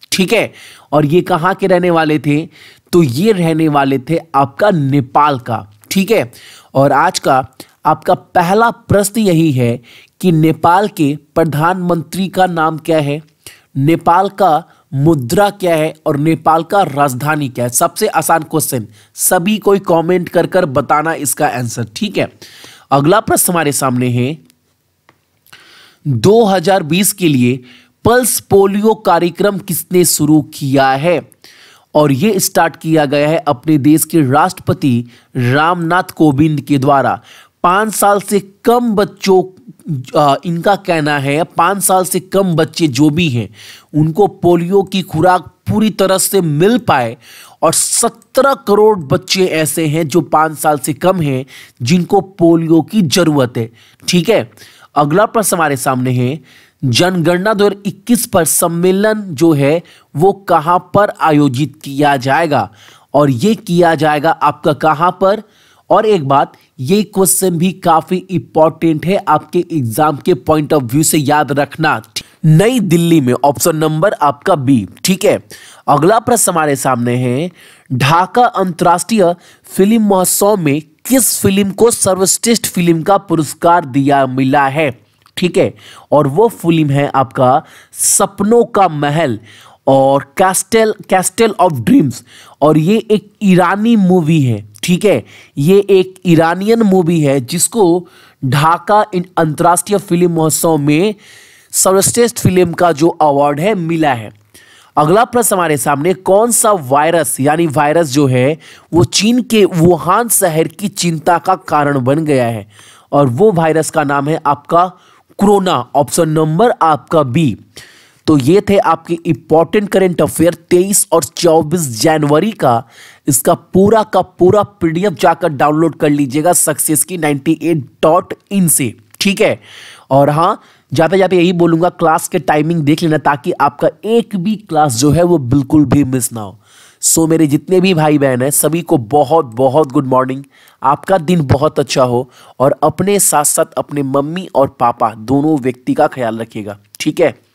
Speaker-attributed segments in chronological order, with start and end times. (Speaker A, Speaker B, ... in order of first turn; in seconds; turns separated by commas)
Speaker A: 0.1-13.2, Speaker A: 13.8-22.3, Speaker A: 22.9-24.4, Speaker A: 26.1-31.2, Speaker A: 31.9-101.2, Speaker A: 101.7-104.3, Speaker A: 105.0-117.6, Speaker A: 118.3-147.4